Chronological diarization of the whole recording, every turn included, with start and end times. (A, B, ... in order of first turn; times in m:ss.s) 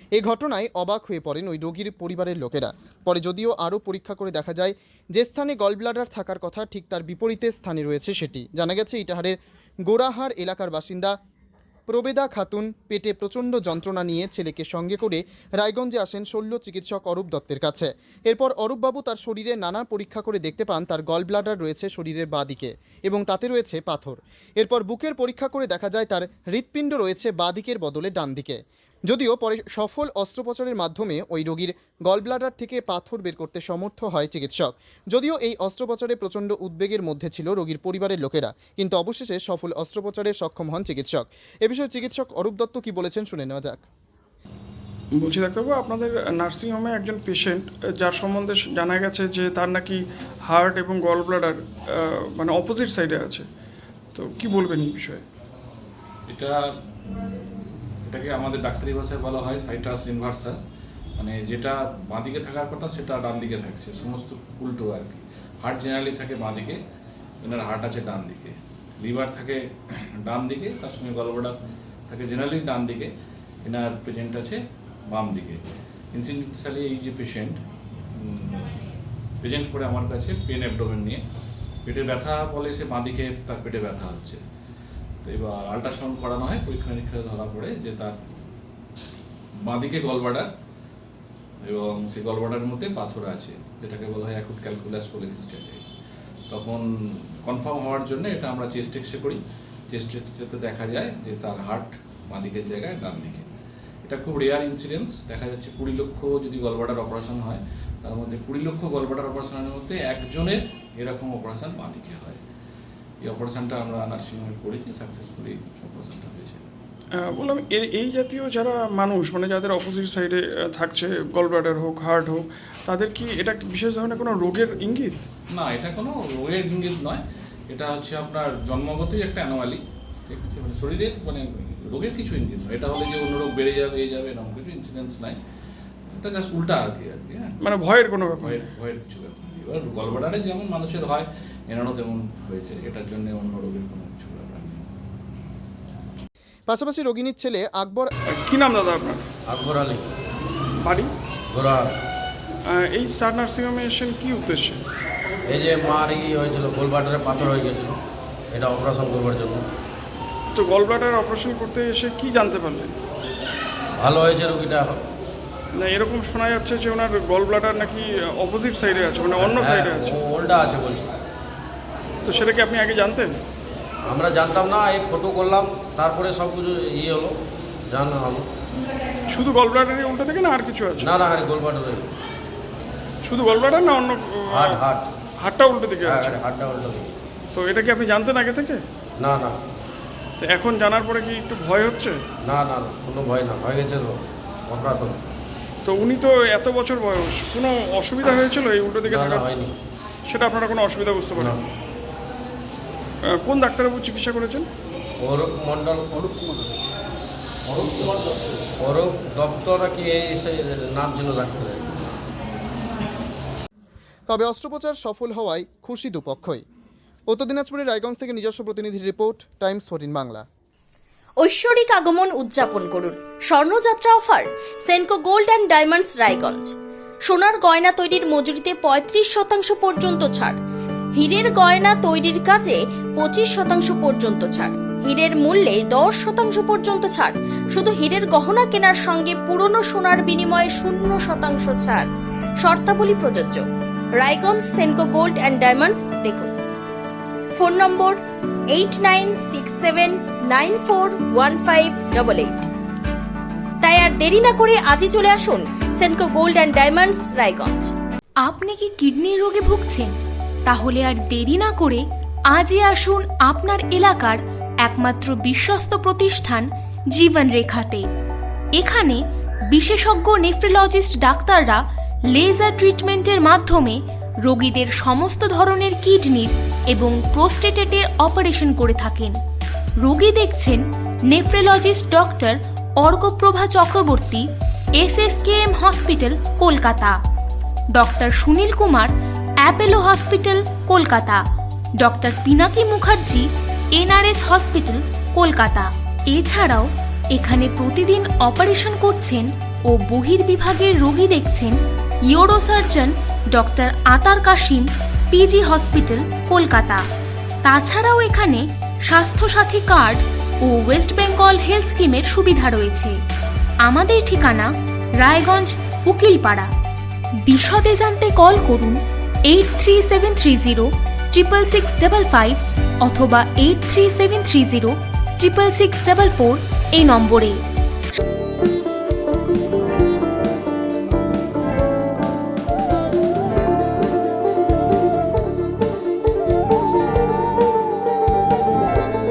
0:00.2-0:09.4 A
0:09.9-0:11.1 A
0:11.9-0:28.6 A
0:29.1-0:43.8 A
0:45.2-0:53.4 B
0:54.1-0:55.2 B
0:56.3-0:56.5 C
0:58.0-1:00.6 C
1:01.2-1:06.8 C
1:07.4-1:09.6 C
1:10.2-1:11.6 C
1:12.1-1:13.1 C
1:13.6-1:17.6 C
1:18.2-1:18.8 C
1:19.4-1:21.2 C
1:21.8-1:24.4 C
1:25.2-1:28.2 C
1:29.7-1:30.5 C
1:31.6-1:36.0 C
1:36.5-1:36.8 C
1:37.4-1:39.4 C
1:39.9-1:43.5 C
1:44.0-1:52.4 C
1:53.2-1:56.6 C
1:57.2-2:05.2 B
2:05.5-2:15.4 C
2:16.2-2:17.5 C
2:17.6-2:18.6 B
2:18.4-2:24.8 C
2:26.7-2:28.1 A
2:28.3-2:29.2 B
2:29.5-2:30.0 D
2:30.8-2:31.1 B
2:31.5-2:31.9 D
2:32.7-2:34.8 B
2:35.5-2:38.0 D
2:38.5-2:39.6 D
2:40.5-2:42.9 B
2:44.0-2:45.0 D
2:45.8-2:50.2 B
2:49.4-2:51.1 D
2:52.2-2:53.4 B
2:54.1-2:57.3 D
2:57.9-2:58.4 D
2:59.3-3:01.2 B
3:01.0-3:02.1 D
3:03.2-3:04.8 B
3:04.5-3:05.1 D
3:05.4-3:06.4 B
3:06.0-3:07.1 D
3:07.5-3:08.8 B
3:09.2-3:09.5 D
3:10.4-3:12.2 B
3:12.4-3:14.1 D
3:14.7-3:15.2 D
3:15.8-3:19.4 B
3:19.0-3:19.7 D
3:20.3-3:21.6 B
3:21.4-3:21.6 D
3:23.3-3:24.7 B
3:25.2-3:26.6 D
3:27.7-3:31.8 D
3:34.3-3:36.6 A
3:37.3-3:40.4 A
3:41.4-3:46.7 E
3:47.2-3:50.6 E
3:51.2-4:06.5 E
4:07.6-4:08.2 E
4:08.7-4:12.6 E
4:13.8-4:17.9 E
4:18.4-4:20.1 F
4:20.6-4:28.0 F
4:28.8-4:39.4 F
4:40.0-4:47.2 F
4:47.9-4:51.4 F
4:52.0-5:01.8 F
5:02.3-5:07.0 F
5:07.6-5:13.2 F
5:13.8-5:16.7 F
5:17.4-5:27.6 F